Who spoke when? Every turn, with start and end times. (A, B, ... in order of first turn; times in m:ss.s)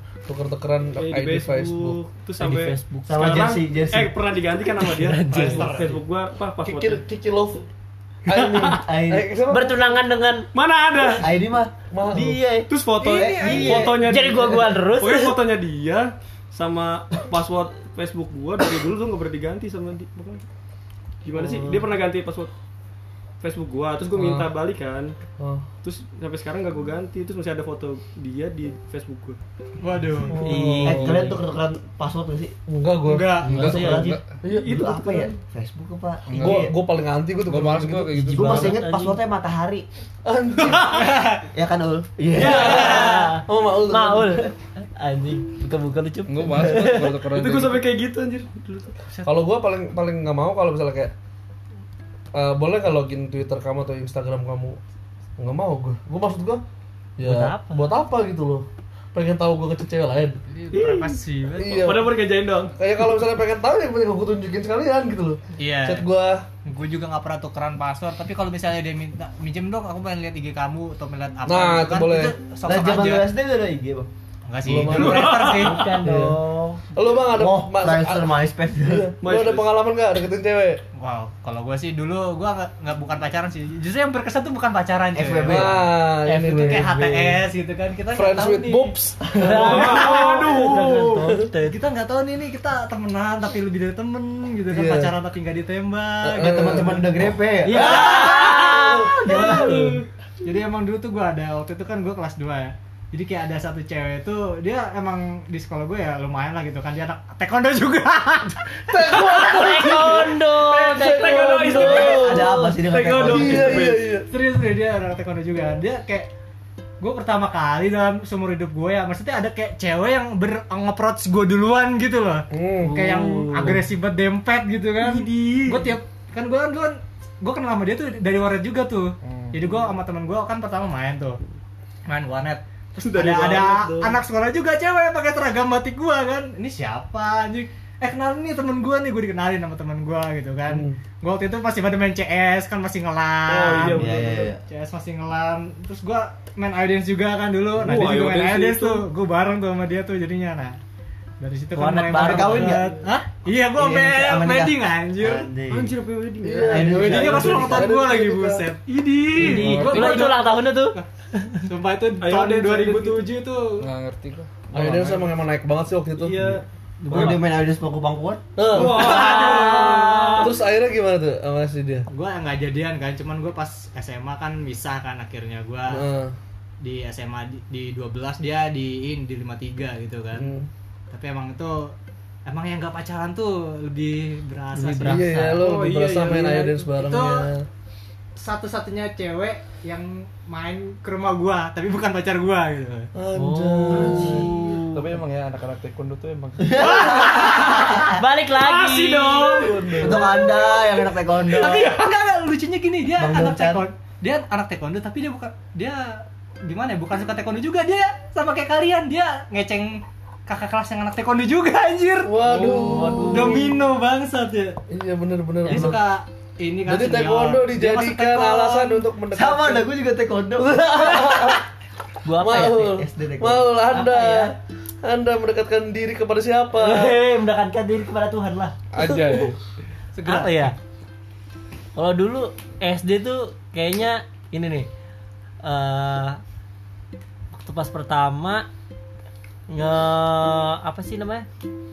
0:00.2-0:02.0 A
0:01.0-0:07.0 B
0:02.4-0:03.6 C
0:03.1-0:04.2 D
0:04.8-0:05.9 C
0:05.2-0:06.0 E
0:06.6-0:07.6 A
0:08.2-0:09.9 A
0:08.3-0:08.6 C
0:08.4-0:09.3 D
0:09.5-0:10.5 C
0:10.5-0:11.3 B
0:11.1-0:14.0 D
0:11.9-0:12.5 A
0:12.7-0:20.4 B
0:12.9-0:14.0 E
0:13.5-0:15.4 C
0:21.2-0:22.5 B
0:23.4-0:25.1 B
0:24.1-0:24.5 A
0:25.4-0:25.6 A
0:25.8-0:29.4 B
0:29.8-0:30.6 E
0:30.3-0:31.3 A
0:30.4-0:31.3 C
0:30.8-0:32.6 D
0:32.7-0:34.8 A
0:33.0-0:33.9 E
0:33.4-0:34.4 F
0:33.5-0:36.7 D
0:34.5-0:35.3 B
0:36.3-0:36.7 F
0:36.4-0:38.7 A
0:37.4-0:38.8 F
0:38.3-0:39.8 D
0:38.4-0:39.2 C
0:40.2-0:41.2 A
0:40.8-0:41.4 E
0:41.5-0:43.1 D
0:42.4-0:47.1 C
0:42.4-0:44.5 A
0:46.3-0:47.9 F
0:47.3-0:48.9 B
0:49.2-0:51.1 A
0:52.3-0:54.8 A
0:55.4-0:56.6 A
0:57.2-1:00.4 A
0:57.2-0:57.8 C
1:00.6-1:02.0 E
1:00.7-1:02.7 B
1:01.6-1:06.4 A
1:05.6-1:06.0 E
1:06.6-1:13.2 E
1:11.5-1:12.3 A
1:12.6-1:14.1 D
1:14.5-1:16.0 E
1:14.6-1:16.4 A
1:15.3-1:15.6 B
1:15.4-1:16.2 C
1:15.8-1:19.1 D
1:16.9-1:18.3 A
1:18.8-1:20.8 A
1:19.2-1:19.7 B
1:21.0-1:25.7 E
1:25.1-1:25.8 D
1:25.4-1:27.4 A
1:26.2-1:28.9 E
1:28.1-1:29.2 A
1:29.3-1:30.0 D
1:29.4-1:31.8 C
1:29.6-1:31.3 B
1:29.7-1:37.0 E
1:34.7-1:35.1 A
1:36.2-1:37.1 A
1:36.4-1:39.8 D
1:37.6-1:39.8 C
1:39.3-1:39.9 B
1:39.3-1:39.8 A
1:40.4-1:48.6 E
1:48.9-1:52.6 A
1:49.1-1:52.4 C
1:50.8-1:54.1 B
1:52.0-1:54.0 D
1:53.2-1:54.3 A
1:54.3-1:56.3 E
1:57.0-2:11.4 E
2:02.5-2:03.8 A
2:05.0-2:05.9 B
2:09.2-2:09.7 F
2:12.1-2:24.1 E
2:13.0-2:14.2 B
2:20.7-2:21.0 A
2:23.5-2:24.5 B
2:23.9-2:24.6 D
2:24.7-2:30.7 E
2:27.8-2:29.0 B
2:31.4-2:35.5 E
2:31.8-2:32.9 D
2:31.9-2:32.7 C
2:33.8-2:36.0 D
2:35.7-2:37.1 B
2:36.4-2:38.6 A
2:36.5-2:37.9 D
2:36.7-2:38.9 E
2:38.9-2:40.1 B
2:39.3-2:41.5 C
2:39.4-2:40.2 A
2:39.6-2:40.3 F
2:39.8-2:40.3 E
2:41.7-2:43.8 E
2:42.2-2:43.3 B
2:43.8-2:45.1 F
2:44.7-2:46.6 A
2:47.0-2:47.4 C
2:47.1-2:48.4 D
2:47.1-2:47.4 B
2:48.6-2:49.2 A
2:48.7-2:50.5 B
2:48.8-2:50.5 C
2:50.4-2:52.0 A
2:52.1-2:56.0 E
2:55.9-2:56.3 A
2:56.8-3:00.5 E
3:00.3-3:00.7 A
3:01.1-3:01.9 E
3:02.4-3:05.6 E
3:04.8-3:07.6 A
3:05.6-3:06.9 B
3:06.9-3:07.5 E
3:08.4-3:13.1 E
3:13.1-3:14.5 A
3:13.3-3:14.8 C
3:14.2-3:14.5 E
3:14.9-3:16.9 F
3:16.6-3:18.0 D
3:16.8-3:19.7 C
3:17.0-3:17.6 E
3:18.6-3:20.7 E
3:18.9-3:19.6 B
3:19.5-3:20.3 A
3:20.0-3:22.0 D
3:21.4-3:34.8 E
3:23.2-3:23.8 A
3:23.3-3:23.8 D
3:32.2-3:33.7 A
3:32.5-3:33.6 C
3:33.0-3:33.3 D
3:34.9-3:36.0 A
3:35.6-3:39.0 E
3:36.8-3:39.8 A
3:39.3-3:41.4 D
3:40.6-3:41.6 A
3:42.2-3:42.9 C
3:42.4-3:47.2 A
3:42.5-3:43.7 D
3:43.9-3:44.5 C
3:46.7-3:48.7 C
3:48.9-3:49.6 F
3:50.1-3:50.7 E
3:50.2-3:50.7 C
3:52.0-3:54.9 C
3:55.6-3:56.4 C
3:57.5-3:58.6 C
3:59.7-4:01.4 C